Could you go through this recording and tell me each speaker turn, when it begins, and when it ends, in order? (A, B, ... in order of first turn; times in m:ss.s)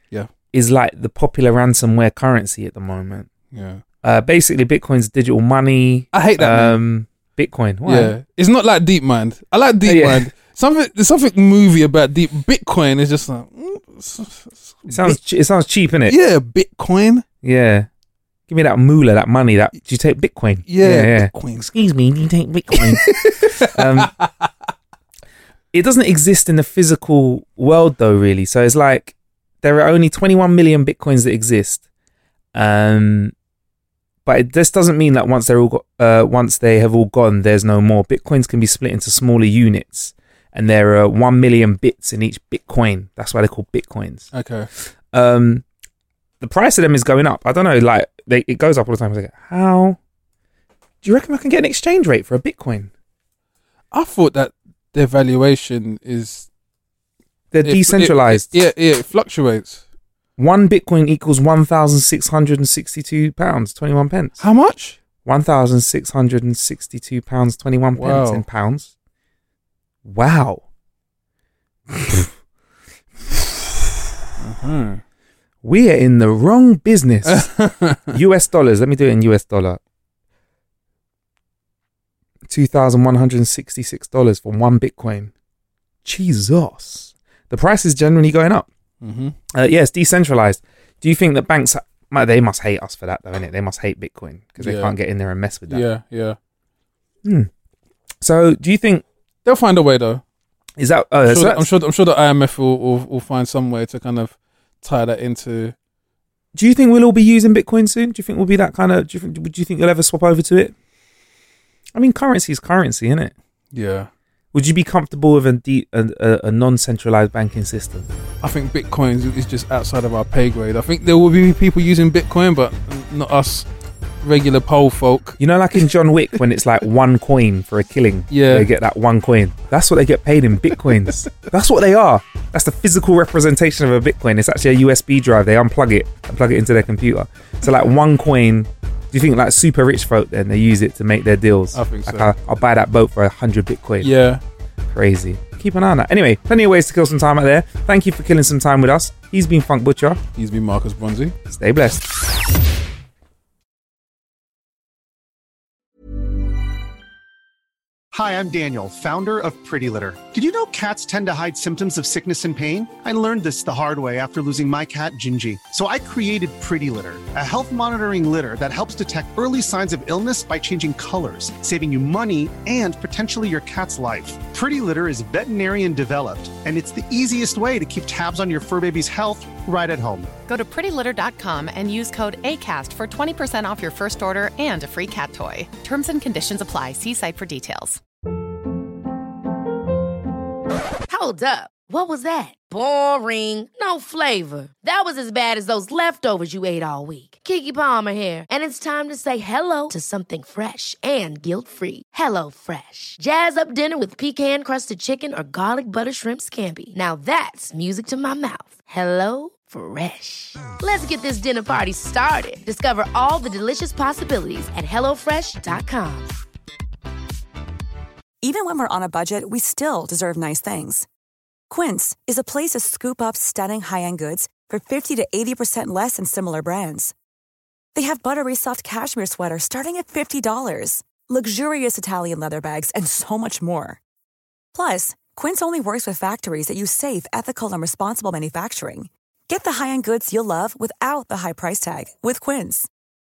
0:00.5-0:03.3 A
0:03.5-0:03.8 B
0:04.0-0:08.2 A
0:06.1-0:06.8 B
0:07.9-0:15.2 B
0:09.8-0:10.3 A
0:14.9-0:16.2 A
0:16.1-0:17.2 B
0:17.4-0:17.9 A
0:18.5-0:24.1 A
0:20.7-0:21.7 B
0:22.7-0:24.5 B
0:25.7-0:31.8 A
0:32.5-0:33.3 A
0:34.2-0:44.3 A
0:44.3-0:44.7 B
0:45.1-0:45.6 A
0:46.4-0:50.0 A
0:51.0-0:52.9 A
0:53.9-0:56.5 B
0:57.5-0:58.5 A
0:57.6-0:59.8 B
1:00.4-1:04.4 A
1:04.4-1:05.0 B
1:05.2-1:08.9 A
1:08.0-1:08.4 B
1:10.0-1:10.6 A
1:11.9-1:12.3 A
1:14.4-1:15.0 B
1:15.6-1:17.5 A
1:17.2-1:18.2 B
1:18.1-1:19.8 A
1:22.5-1:25.3 A
1:26.0-1:28.7 A
1:29.0-1:29.4 B
1:29.5-1:35.9 A
1:34.6-1:34.9 B
1:35.7-1:36.4 B
1:37.2-1:37.5 A
1:38.2-1:39.0 A
1:39.4-1:40.2 B
1:40.8-1:41.7 A
1:41.3-1:45.8 B
1:46.6-1:50.7 A
1:52.0-1:53.3 A
1:53.7-1:54.1 B
1:54.5-1:58.1 A
1:58.4-2:03.7 B
2:04.2-2:05.4 B
2:05.4-2:24.1 A
2:08.3-2:08.7 B
2:21.7-2:22.3 B
2:24.0-2:24.4 B
2:24.9-2:30.2 A
2:30.4-2:31.4 B
2:31.5-2:32.2 A
2:38.1-3:00.3 C
3:00.5-3:08.0 D
3:11.1-3:36.3 E
3:38.4-3:41.1 F
3:41.7-3:47.1 F
3:48.0-3:54.0 F
3:54.7-4:02.9 F